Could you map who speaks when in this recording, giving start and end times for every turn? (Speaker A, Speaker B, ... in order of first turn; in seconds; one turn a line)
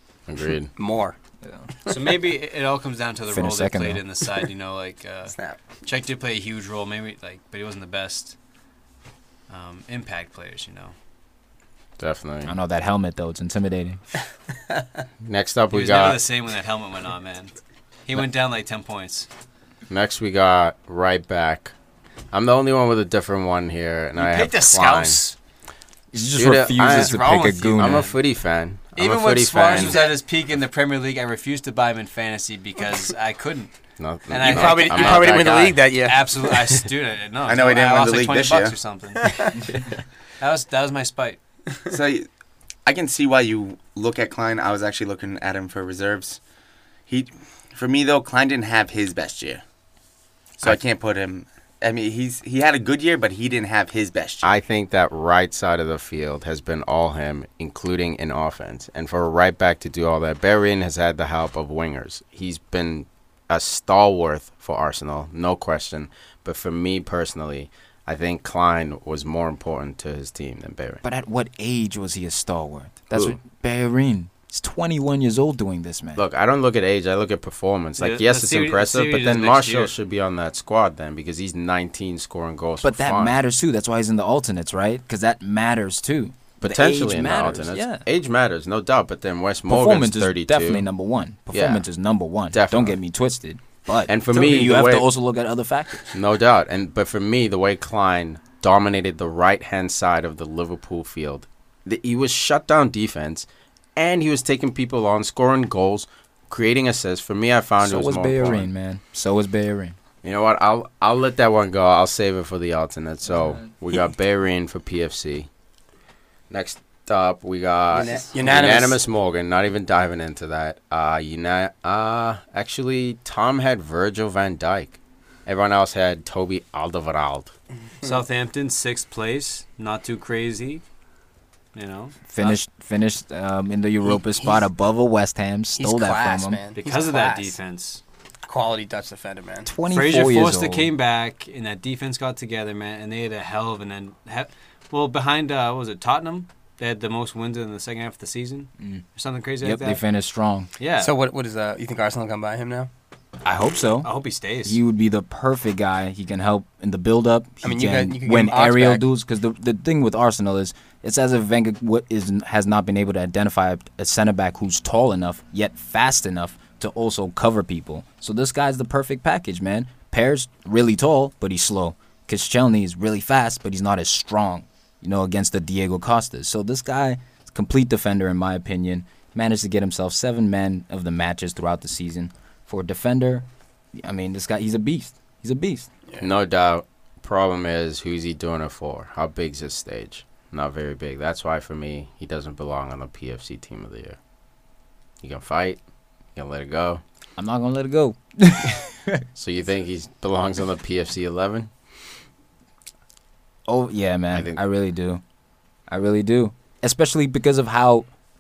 Speaker A: 0.3-0.7
Speaker B: 0.8-1.2
Speaker C: 1.9-8.4
Speaker D: 3.3-4.0
Speaker B: 5.3-5.6
Speaker C: 9.5-10.9
Speaker A: 12.0-12.6
Speaker D: 12.4-14.0
Speaker A: 15.2-16.2
Speaker C: 15.7-17.5
Speaker C: 18.1-19.3
Speaker A: 19.9-21.7
Speaker A: 22.3-25.2
Speaker C: 24.1-25.4
Speaker D: 26.1-28.1
Speaker A: 26.3-30.1
Speaker C: 26.8-28.1
Speaker C: 29.0-33.7
Speaker A: 34.0-35.8
Speaker C: 34.3-39.8
Speaker B: 34.4-36.8
Speaker E: 37.5-38.8
Speaker C: 40.4-41.4
Speaker E: 41.9-42.3
Speaker E: 42.9-46.4
Speaker E: 47.1-49.6
Speaker E: 50.6-54.5
Speaker A: 54.4-71.0
Speaker D: 71.0-76.2
Speaker A: 76.2-83.3
Speaker C: 78.0-79.9
Speaker D: 82.8-88.1
Speaker A: 86.6-90.9
Speaker D: 89.7-96.2
Speaker A: 91.5-91.8
Speaker A: 92.5-93.0
Speaker A: 94.1-95.1
Speaker A: 96.1-108.7
Speaker D: 107.8-110.0
Speaker A: 110.2-115.5
Speaker D: 113.3-113.6
Speaker A: 116.5-127.5
Speaker B: 117.9-119.0
Speaker C: 128.0-130.8
Speaker C: 131.7-132.6
Speaker D: 132.3-136.6
Speaker B: 134.2-134.6
Speaker B: 135.8-137.6
Speaker C: 136.8-138.0
Speaker B: 138.5-139.7
Speaker D: 139.7-140.9
Speaker C: 139.9-150.0
Speaker D: 149.6-150.7
Speaker C: 150.8-151.1
Speaker B: 151.0-152.9
Speaker D: 153.4-185.9
Speaker C: 154.0-154.8
Speaker B: 157.6-159.0
Speaker A: 186.2-194.2
Speaker A: 195.2-195.8
Speaker A: 196.3-197.0
Speaker D: 197.4-199.2
Speaker A: 199.4-201.7
Speaker D: 203.7-205.2
Speaker A: 204.3-204.6
Speaker D: 205.9-208.1